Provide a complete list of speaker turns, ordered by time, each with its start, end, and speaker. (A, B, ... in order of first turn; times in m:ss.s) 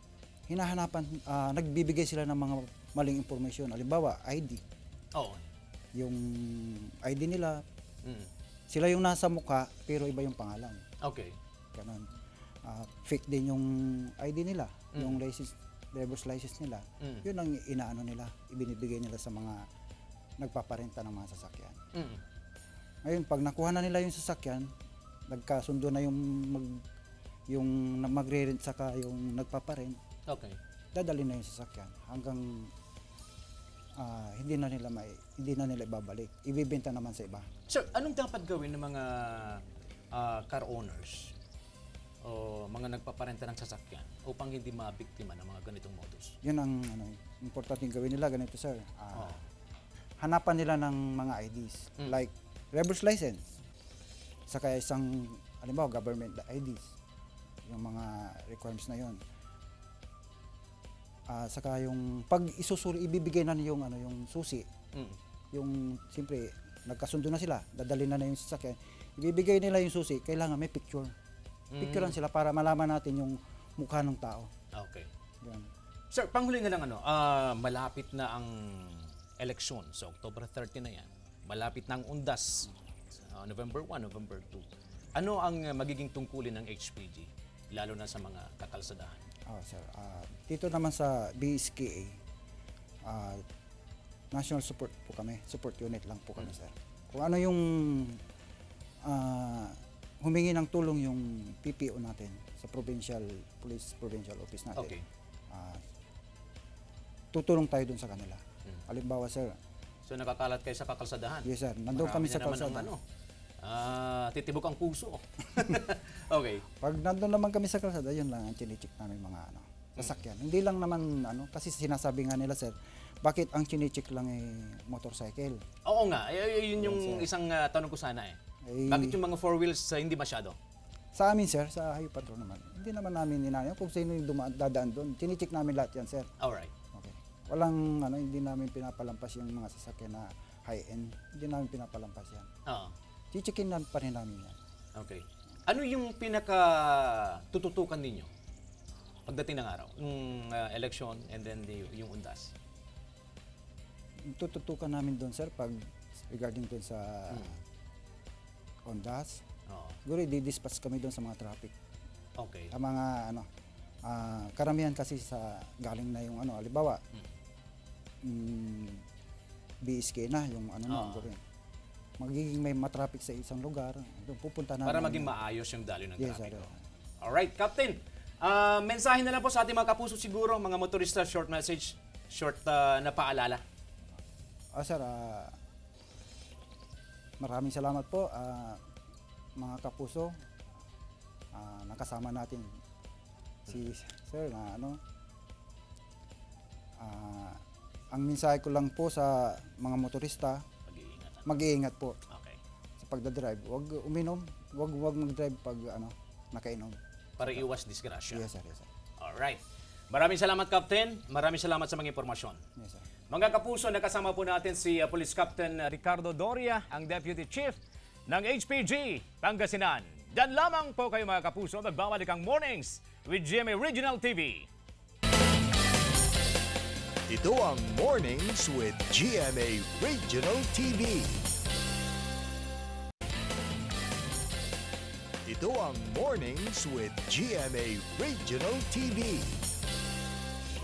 0:00.5-0:04.6 A
0:05.2-0:05.5 B
0:06.0-0:07.6 A
0:08.0-0:08.3 B
0:08.7-0:10.8 A
0:11.0-0:11.4 B
0:11.7-0:12.1 A
0:12.6-0:19.6 A
0:15.0-0:15.2 B
0:20.4-0:21.8 A
0:22.0-0:22.2 B
0:23.0-0:24.7 A
0:25.3-0:26.8 A
0:27.5-0:30.0 A
0:30.3-0:30.6 B
0:30.9-0:32.7 A
0:34.0-0:37.5 A
0:37.7-0:41.3 B
0:42.2-0:46.4 B
0:46.4-0:49.4 A
0:49.2-0:49.4 B
0:50.2-0:53.5 A
0:54.5-0:56.9 A
0:57.7-0:59.2 A
1:01.3-1:04.7 A
1:05.5-1:11.1 A
1:11.7-1:12.2 B
1:11.8-1:14.5 A
1:14.8-1:15.1 B
1:15.4-1:15.7 A
1:16.1-1:22.7 B
1:23.2-1:29.2 B
1:29.5-1:32.2 A
1:33.0-1:33.4 A
1:34.3-1:38.2 A
1:39.0-1:44.9 A
1:44.8-1:45.0 B
1:45.5-1:45.8 A
1:47.3-1:49.5 A
1:50.1-1:53.0 B
1:51.4-1:52.9 A
1:53.6-1:56.6 B
1:56.8-2:05.6 A
2:05.9-2:10.6 B
2:06.8-2:07.3 A
2:08.6-2:09.2 A
2:11.2-2:16.3 A
2:16.4-2:16.7 B
2:16.9-2:22.5 A
2:22.7-2:22.9 B
2:23.3-2:24.6 A
2:25.0-2:28.3 B
2:29.3-2:32.5 B
2:34.3-2:37.5 A
2:38.9-2:39.4 A
2:39.7-2:40.0 B
2:40.0-2:41.7 A
2:42.4-2:42.7 B
2:42.7-2:43.5 A
2:44.0-2:47.0 A
2:48.2-2:49.0 A
2:49.8-2:51.4 A
2:50.9-2:51.3 B
2:52.2-2:55.3 A
2:54.8-2:56.7 B
2:56.2-2:56.8 A
2:57.2-3:03.6 B
3:04.8-3:05.6 A
3:07.4-3:08.8 A
3:09.6-3:10.3 A
3:11.5-3:12.7 A
3:13.7-3:15.0 A
3:17.0-3:17.6 A
3:18.1-3:20.6 A
3:20.9-3:21.5 B
3:21.5-3:22.2 A
3:22.3-3:22.6 B
3:23.0-3:27.6 A
3:27.4-3:28.5 B
3:28.3-3:28.9 A
3:29.2-3:32.6 B
3:32.8-3:33.1 A
3:33.3-3:37.8 B
3:38.3-3:44.7 B
3:47.3-3:51.4 C
3:55.5-3:59.6 C